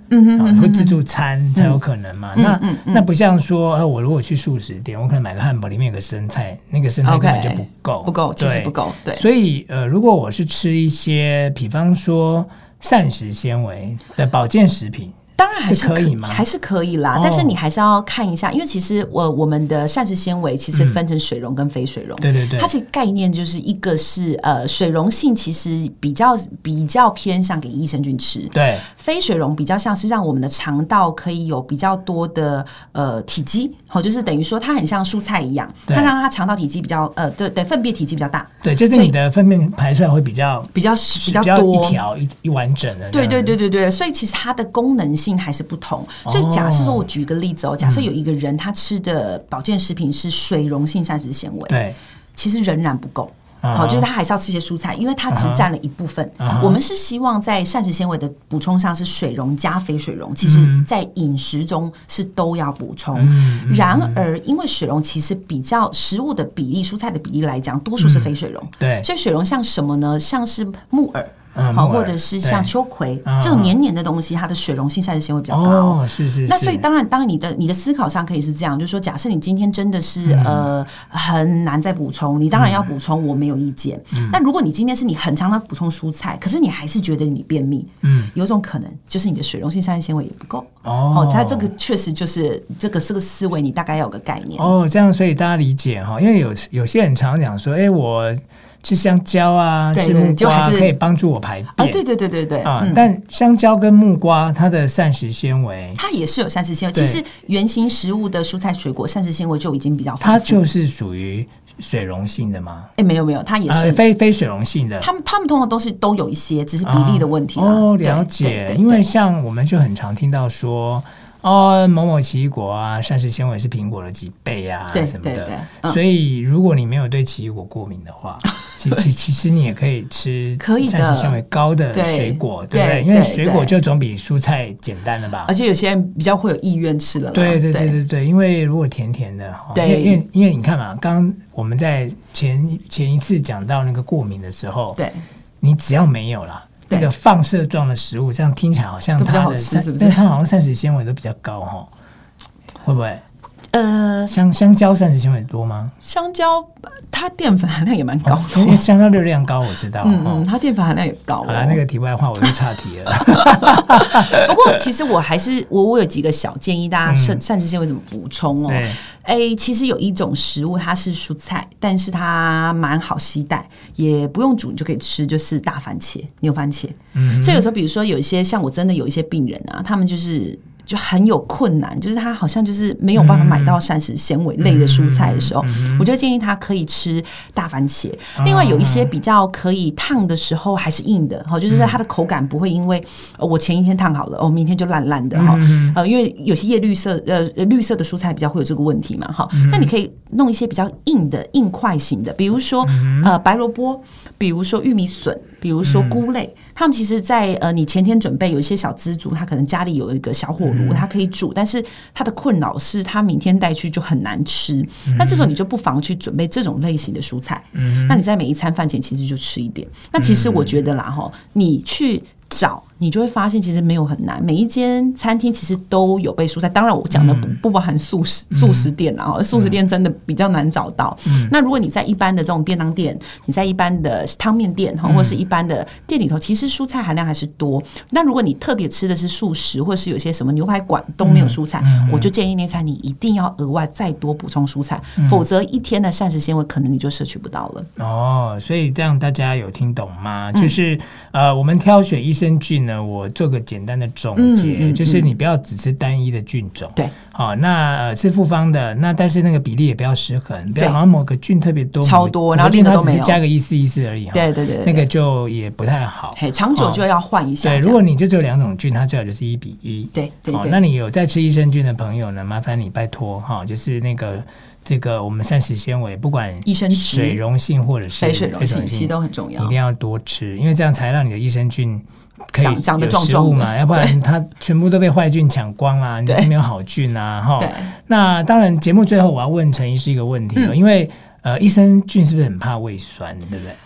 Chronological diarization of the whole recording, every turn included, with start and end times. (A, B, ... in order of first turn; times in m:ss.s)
0:00.1-0:01.0 A
0:00.4-0:16.4 B
0:01.6-0:01.8 A
0:02.4-0:03.1 A
0:07.0-0:09.3 A
0:15.4-0:39.1 A
0:17.1-0:17.6 B
0:22.2-0:22.7 B
0:28.5-0:28.8 B
0:38.6-0:43.6 B
0:40.7-0:42.0 A
0:43.1-0:51.8 A
0:46.2-0:47.1 B
0:47.8-0:48.1 B
0:51.7-0:52.0 B
0:52.4-1:34.7 A
0:53.6-0:54.1 B
0:55.3-0:55.7 B
0:56.4-0:56.8 B
1:00.4-1:00.9 B
1:03.2-1:04.2 B
1:08.0-1:09.1 B
1:11.6-1:12.7 B
1:13.2-1:13.7 B
1:15.5-1:16.8 B
1:20.2-1:20.7 B
1:22.5-1:22.9 B
1:24.1-1:24.4 B
1:28.0-1:28.3 B
1:30.8-1:31.7 B
1:34.6-1:42.0 B
1:39.9-1:40.9 A
1:41.8-1:43.0 A
1:42.6-1:46.0 B
1:46.0-1:50.6 A
1:47.0-1:47.2 B
1:50.2-1:52.9 B
1:53.0-1:54.0 A
1:53.7-1:55.1 B
1:55.0-1:59.1 A
1:56.8-2:15.5 B
2:04.9-2:06.0 A
2:08.5-2:09.0 A
2:10.6-2:11.4 A
2:11.9-2:13.8 A
2:15.4-2:18.0 A
2:17.3-2:25.0 B
2:19.7-2:20.2 A
2:25.0-2:25.2 A
2:25.6-2:31.9 B
2:29.2-2:30.2 A
2:32.8-2:33.2 B
2:33.7-2:34.3 A
2:34.3-2:35.9 B
2:36.0-2:38.9 A
2:38.2-2:40.5 B
2:40.0-2:41.8 A
2:41.4-2:44.4 B
2:43.2-4:07.9 A
2:47.1-2:47.4 B
2:48.7-2:49.0 B
2:57.2-2:57.7 B
3:03.2-3:03.8 B
3:04.6-3:06.1 B
3:08.4-3:09.1 B
3:11.7-3:12.0 B
3:15.3-3:16.0 B
3:19.6-3:19.9 B
3:22.8-3:23.3 B
3:25.8-3:26.2 B
3:30.6-3:31.0 B
3:35.1-3:35.5 B
3:37.8-3:38.2 B
3:40.2-3:40.7 B
3:47.1-3:47.6 B
3:48.5-3:48.9 B
3:51.3-3:51.5 B
3:55.0-3:55.4 B
4:01.2-4:02.3 B
4:05.2-4:05.4 B
4:08.0-4:27.0 B
4:14.4-4:15.3 A
4:22.0-4:23.4 A
4:24.3-4:25.1 A
4:26.4-4:28.0 A
4:27.6-4:53.8 B
4:30.1-4:30.8 A
4:36.6-4:37.4 A
4:38.2-4:39.7 A
4:42.6-4:44.2 A
4:46.3-4:46.5 A
4:47.6-4:47.9 A